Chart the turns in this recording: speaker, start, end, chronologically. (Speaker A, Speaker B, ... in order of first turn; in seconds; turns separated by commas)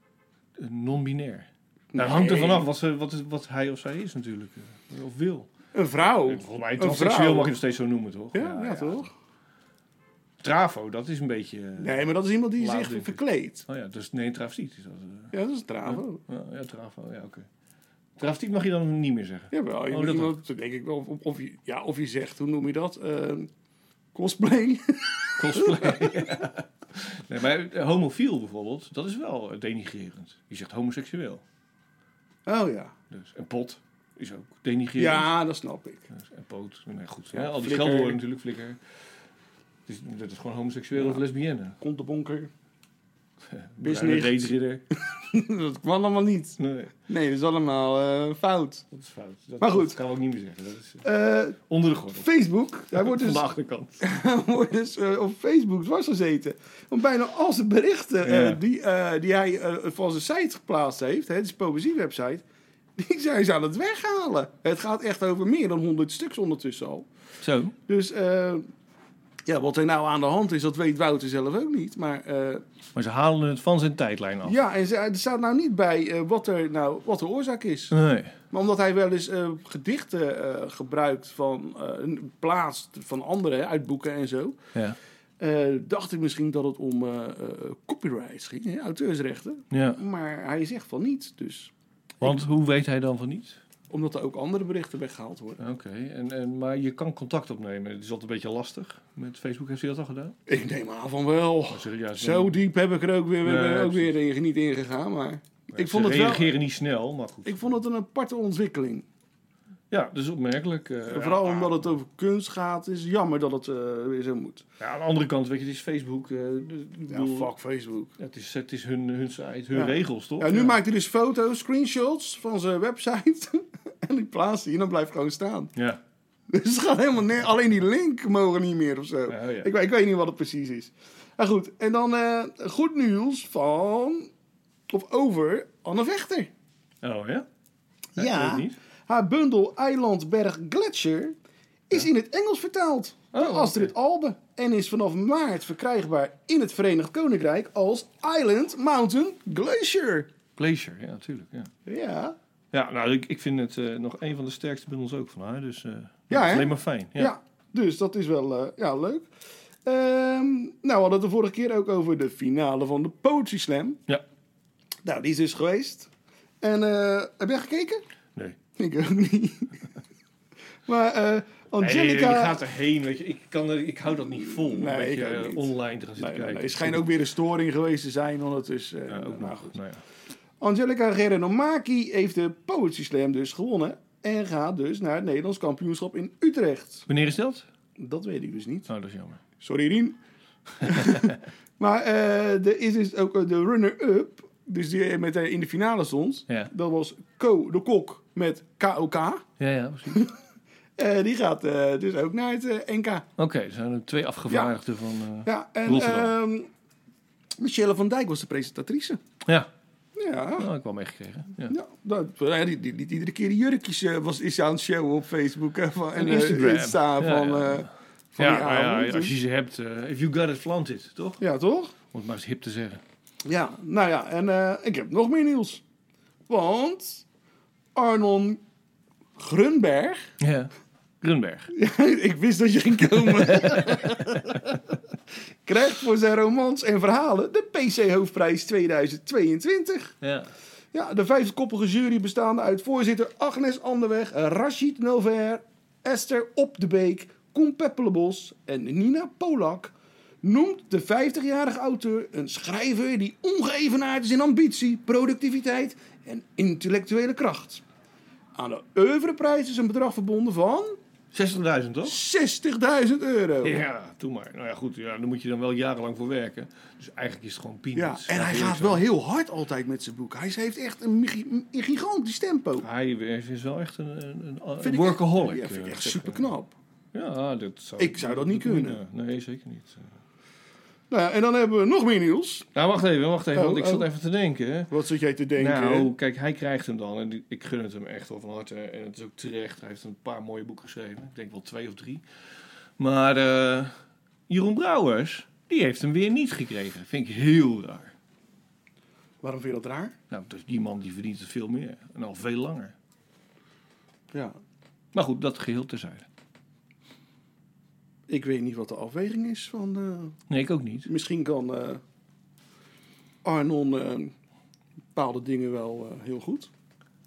Speaker A: 0.6-5.5, Speaker B: 1.9-2.7, Speaker B: 5.7-7.5, Speaker A: 6.0-9.1, Speaker B: 8.3-9.1, Speaker A: 10.4-12.0, Speaker B: 11.8-13.7, Speaker A: 12.6-15.3, Speaker B: 15.3-16.2, Speaker A: 15.8-17.5, Speaker A: 18.2-20.3, Speaker B: 19.5-23.5, Speaker B: 24.1-26.2, Speaker A: 25.4-31.4, Speaker B: 32.5-32.9, Speaker A: 33.1-35.3, Speaker B: 35.0-36.1, Speaker A: 36.1-38.8, Speaker B: 37.3-38.2, Speaker A: 39.9-41.8, Speaker B: 41.8-42.5, Speaker A: 43.5-44.8, Speaker B: 43.8-44.5, Speaker B: 45.0-48.9, Speaker A: 46.6-46.9, Speaker A: 48.9-51.0, Speaker B: 49.6-50.0, Speaker B: 51.0-51.6, Speaker A: 51.6-52.3, Speaker B: 52.2-53.4, Speaker A: 52.9-54.0, Speaker B: 54.0-62.4, Speaker A: 58.2-58.6, Speaker B: 63.0-67.1, Speaker A: 67.4-67.7, Speaker B: 67.9-68.7, Speaker B: 69.5-72.6, Speaker A: 72.9-74.5, Speaker B: 74.4-78.0, Speaker A: 77.9-78.3, Speaker B: 78.5-84.6, Speaker B: 85.4-92.4, Speaker A: 89.7-90.0, Speaker A: 92.2-93.6, Speaker B: 93.9-95.6, Speaker A: 95.6-100.4, Speaker B: 100.5-106.5, Speaker A: 101.7-102.6, Speaker A: 103.4-104.2, Speaker A: 105.7-107.8, Speaker B: 107.4-109.0, Speaker A: 109.9-111.9, Speaker B: 111.1-114.6, Speaker A: 114.8-117.5, Speaker B: 117.1-118.1, Speaker A: 118.2-120.8, Speaker B: 119.7-125.7, Speaker A: 125.8-126.0, Speaker B: 126.5-134.3, Speaker A: 129.3-129.7, Speaker B: 134.9-136.5, Speaker A: 137.0-137.4, Speaker B: 138.1-141.3, Speaker A: 138.2-138.8, Speaker B: 141.9-150.3, Speaker A: 143.3-143.9, Speaker A: 150.6-151.7, Speaker B: 151.8-152.3, Speaker A: 152.7-157.3, Speaker B: 156.3-159.3, Speaker B: 159.8-164.0, Speaker B: 165.0-166.1, Speaker B: 166.6-168.0, Speaker B: 168.8-169.9, Speaker B: 170.9-172.6, Speaker A: 171.8-177.1, Speaker B: 174.4-179.7, Speaker A: 179.1-180.0, Speaker B: 180.6-187.1, Speaker A: 187.1-187.7, Speaker B: 188.0-188.9, Speaker A: 188.9-189.4, Speaker B: 189.6-190.2, Speaker B: 190.7-199.4, Speaker A: 190.8-191.3, Speaker A: 199.6-200.2, Speaker B: 200.1-200.3, Speaker B: 201.0-203.3, Speaker A: 203.4-206.3, Speaker B: 204.5-204.7, Speaker B: 205.4-206.7, Speaker B: 207.6-209.2, Speaker A: 209.4-209.7, Speaker B: 210.2-210.7, Speaker A: 210.6-211.7, Speaker B: 211.7-219.3, Speaker A: 216.1-221.4, Speaker B: 221.4-221.9, Speaker A: 222.1-223.0, Speaker B: 223.4-225.8, Speaker B: 226.5-227.2, Speaker B: 227.9-228.6, Speaker B: 229.4-230.3, Speaker A: 230.4-231.7, Speaker B: 231.7-234.9, Speaker A: 233.3-234.2, Speaker B: 235.6-240.1, Speaker A: 240.2-240.5, Speaker B: 240.9-257.8, Speaker B: 258.5-261.0, Speaker A: 261.3-262.2, Speaker B: 262.0-263.8, Speaker A: 263.6-269.0, Speaker B: 267.9-272.9, Speaker A: 272.8-276.5, Speaker B: 274.8-276.7, Speaker A: 277.1-280.1, Speaker B: 278.0-279.0, Speaker B: 281.1-282.7, Speaker A: 282.7-284.9, Speaker B: 283.5-284.1, Speaker B: 284.9-286.1, Speaker A: 285.6-292.2, Speaker A: 293.0-293.9, Speaker A: 294.5-298.1, Speaker B: 299.4-300.1, Speaker A: 300.3-302.9, Speaker A: 305.1-306.3, Speaker B: 308.3-310.4, Speaker A: 310.5-311.1, Speaker B: 311.1-312.0, Speaker B: 313.4-314.3, Speaker B: 315.1-316.7